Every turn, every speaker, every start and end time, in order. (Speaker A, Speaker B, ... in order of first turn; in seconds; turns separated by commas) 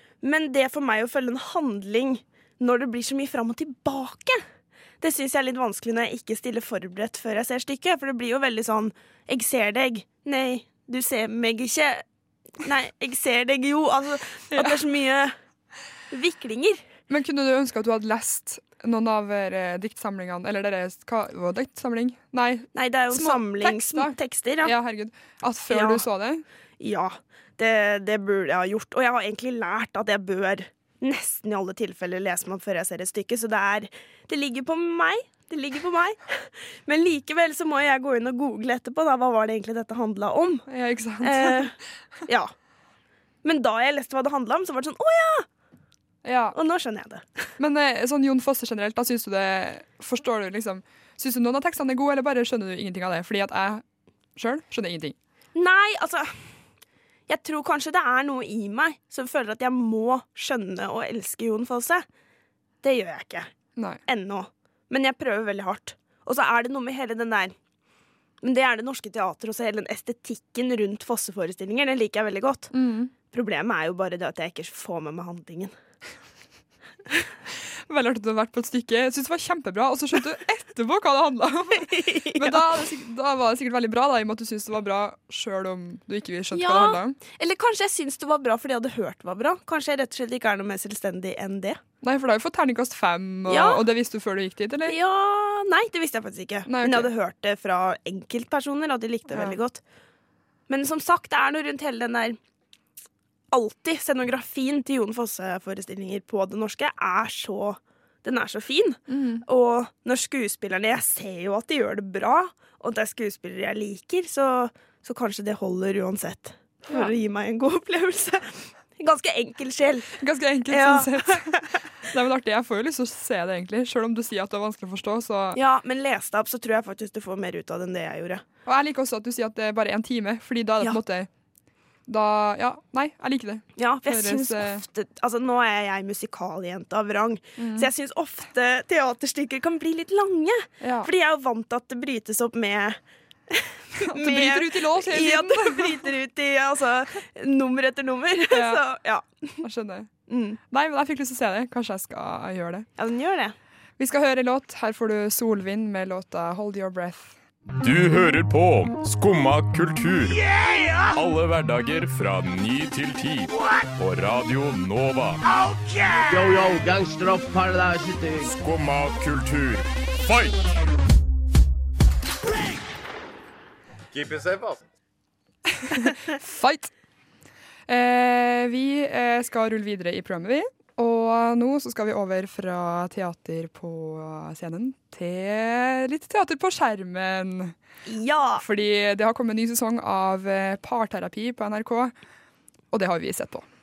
Speaker A: 0.2-4.4, Speaker A: 5.0-12.0, Speaker A: 12.6-15.4, Speaker B: 14.5-14.8, Speaker A: 16.1-16.8, Speaker B: 17.1-26.4, Speaker A: 22.8-24.7, Speaker A: 25.7-26.0, Speaker A: 26.8-40.6, Speaker B: 40.7-41.8, Speaker A: 41.2-41.7, Speaker A: 42.3-42.5, Speaker A: 43.4-45.5, Speaker B: 46.2-46.6, Speaker A: 46.5-47.5, Speaker B: 47.6-53.8, Speaker B: 54.4-55.2, Speaker A: 55.5-56.3, Speaker A: 57.3-62.0, Speaker A: 62.8-63.5, Speaker A: 64.1-67.5, Speaker A: 68.4-72.7, Speaker B: 72.7-73.1, Speaker A: 73.3-75.7, Speaker B: 77.9-87.2, Speaker A: 81.8-82.6, Speaker A: 86.5-91.8, Speaker B: 92.0-95.0, Speaker A: 93.5-93.8, Speaker A: 94.9-99.8, Speaker B: 96.7-97.1, Speaker B: 99.3-99.6, Speaker A: 100.7-102.4, Speaker A: 103.5-120.2, Speaker B: 109.1-109.4, Speaker B: 120.2-121.5, Speaker A: 120.7-121.8, Speaker B: 122.0-125.6, Speaker A: 125.5-128.4, Speaker B: 128.7-131.3, Speaker B: 132.1-134.8, Speaker A: 133.8-143.0, Speaker B: 137.6-137.9, Speaker B: 140.8-141.1, Speaker A: 143.5-149.6, Speaker B: 144.0-146.0, Speaker B: 148.5-148.8, Speaker B: 149.6-150.1, Speaker A: 150.3-150.6, Speaker B: 150.7-152.9, Speaker A: 153.0-153.6, Speaker B: 154.0-157.3, Speaker C: 157.8-160.5, Speaker C: 161.1-165.4, Speaker D: 166.3-168.5, Speaker C: 168.5-170.7, Speaker C: 174.1-174.8, Speaker B: 175.8-176.9, Speaker B: 177.9-187.7, Speaker A: 188.1-188.6, Speaker B: 188.6-192.1, Speaker B: 192.9-193.7